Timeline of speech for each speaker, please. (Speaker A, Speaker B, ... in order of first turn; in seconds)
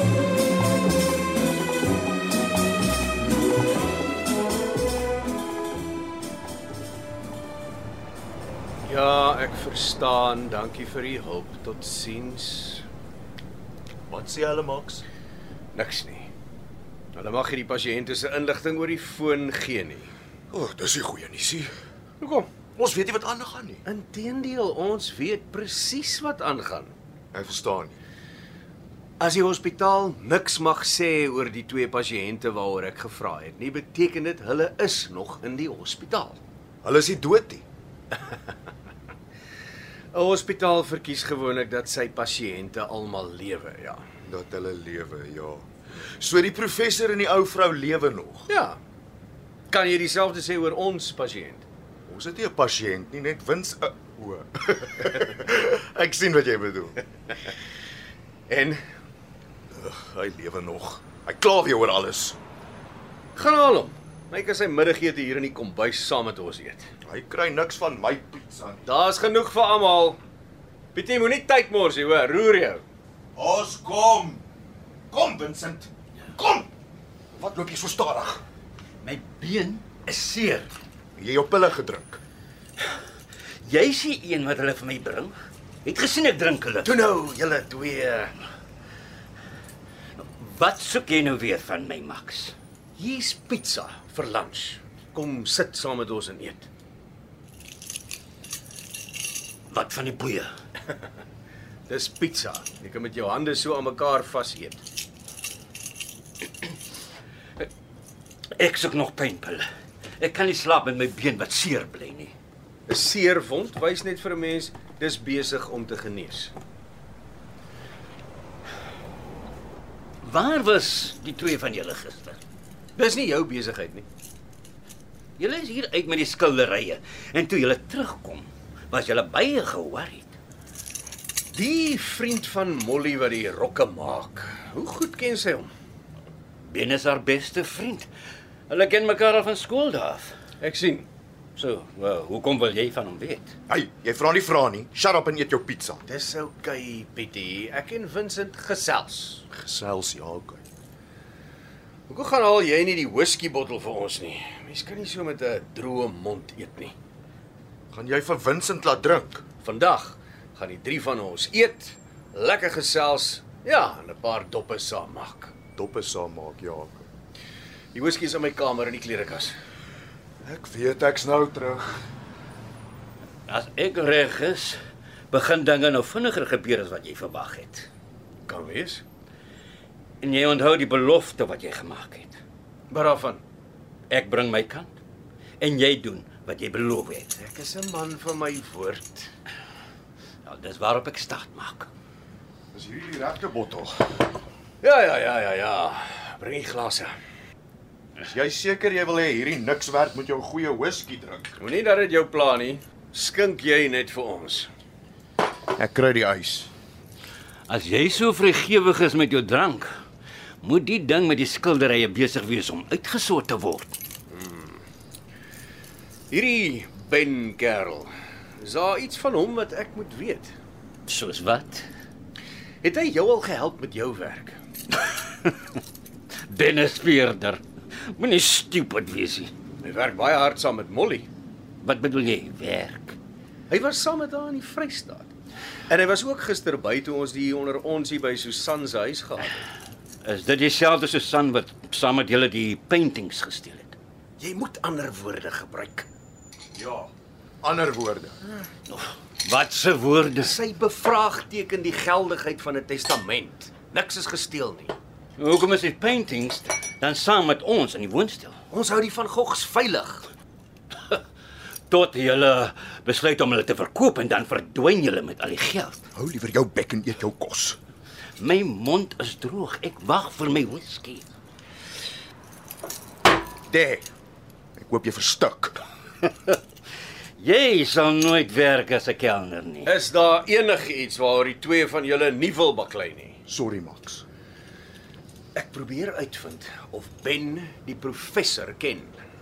Speaker A: 8.8-12.8, 15.7-16.3, 17.1-20.1, 22.2-22.5, 23.8-26.9, 29.2-36.4, 40.1-44.0, 48.5-48.8, 49.7-51.6, 58.5-58.8, 63.3-66.9, 68.8-70.2, 70.9-72.8, 80.1-80.7, 86.8-88.3, 93.0-96.7, 101.9-104.8, 112.9-116.5, 123.0-124.0, 131.5-135.7, 140.6-141.1, 146.1-149.4, 152.1-156.9, 159.6-165.5, 167.9-169.5, 178.5-179.0, 182.9-183.4, 187.3-189.3, 194.8-197.1, 201.6-204.7, 214.3-214.8, 216.3-220.5, 222.8-224.6, 229.8-231.3, 233.7-235.3, 235.9-239.5, 244.4-246.1, 250.4-254.9, 258.7-260.3, 279.8-283.4, 285.5-289.1
Speaker B: 14.1-15.0, 20.5-21.7, 22.7-23.8, 27.3-28.0, 36.8-37.6, 44.2-45.6, 46.2-48.5, 52.1-57.0, 59.7-62.4, 67.0-68.8, 73.3-74.4, 75.1-76.7, 77.4-78.4, 81.2-82.2, 143.7-146.0, 149.5-150.6, 157.9-159.4, 165.7-167.1, 170.4-172.0, 192.7-193.9, 198.2-201.5, 205.7-206.7, 246.7-247.1, 247.6-248.4, 266.1-267.8, 273.7-274.0, 274.8-275.8, 283.5-284.2
Speaker C: 79.0-79.8, 83.6-86.9, 90.2-92.5, 99.7-100.5, 108.5-109.7, 110.2-112.3, 120.2-122.4, 125.4-130.3, 136.6-138.1, 138.7-140.3, 141.6-143.5, 173.5-174.8, 175.3-177.9, 180.2-182.4, 184.1-184.9, 185.6-187.3, 190.4-191.9, 207.7-209.9, 210.6-213.9, 221.1-221.9, 226.5-229.5, 231.8-233.2, 240.2-243.9, 248.9-250.5, 255.4-258.6, 261.9-266.0, 268.4-271.2, 277.4-279.9